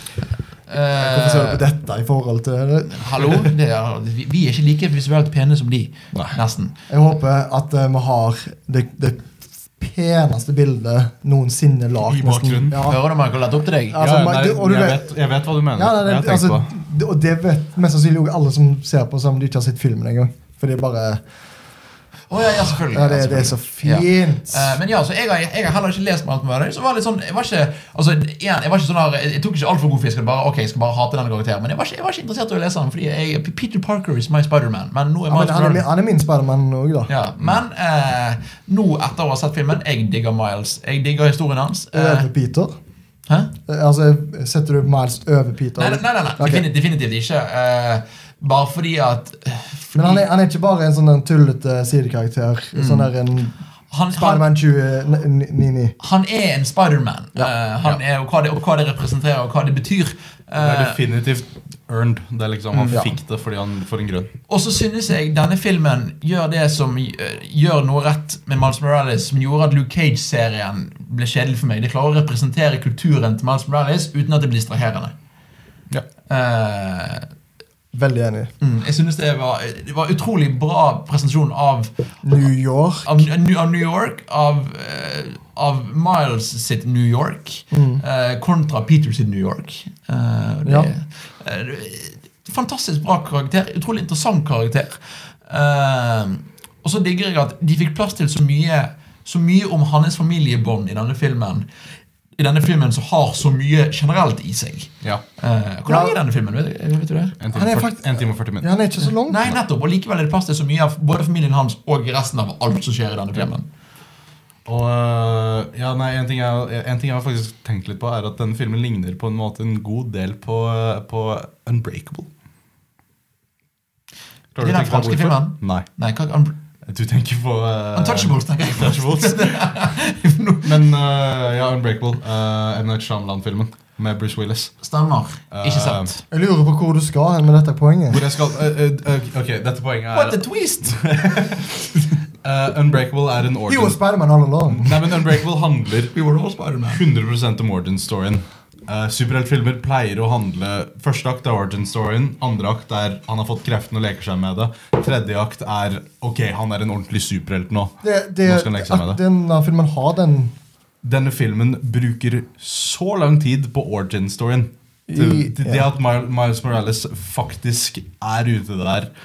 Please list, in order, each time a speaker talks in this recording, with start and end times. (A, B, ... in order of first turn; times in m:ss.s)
0:00.7-0:01.6 A
0:00.9-0:03.5 B
0:02.9-0:06.7 A
0:06.9-0:13.0 B
0:12.1-0:12.8 C
0:12.7-0:14.0 A
0:13.9-0:15.1 B
0:14.0-0:16.7 C
0:15.8-0:21.2 B
0:22.3-0:35.8 A
0:22.7-0:24.8 B
0:35.3-0:37.1 B
0:37.1-0:42.3 A
0:41.9-0:42.8 B
0:43.3-0:43.5 A
0:43.7-0:46.6 B
0:45.8-0:50.2 A
0:50.0-0:53.6 B
0:52.7-0:53.1 A
0:53.9-0:54.4 A
0:54.1-0:56.0 B
0:56.0-1:01.0 A
1:00.6-1:04.3 C
1:04.5-1:15.1 A
1:16.3-1:17.3 A
1:17.9-1:18.5 B
1:18.6-1:22.4 A
1:22.2-1:23.2 B
1:23.0-1:41.7 A
1:27.7-1:28.0 B
1:42.4-1:47.4 A
1:45.9-1:46.2 B
1:47.4-1:48.7 C
1:47.5-1:49.4 B
1:49.0-1:53.7 A
1:54.7-2:02.3 C
2:04.6-2:05.9 C
2:04.6-2:06.5 A
2:06.9-2:09.8 C
2:08.0-2:10.8 A
2:10.6-2:14.8 C
2:14.8-2:16.2 A
2:15.5-2:16.1 C
2:16.3-2:18.2 B
2:18.1-2:24.0 C
2:20.1-2:21.4 A
2:23.7-2:25.2 B
2:24.7-2:26.1 C
2:26.1-2:27.0 A
2:26.9-2:39.2 C
2:38.0-2:40.5 B
2:41.0-2:49.1 C
2:45.1-2:45.8 B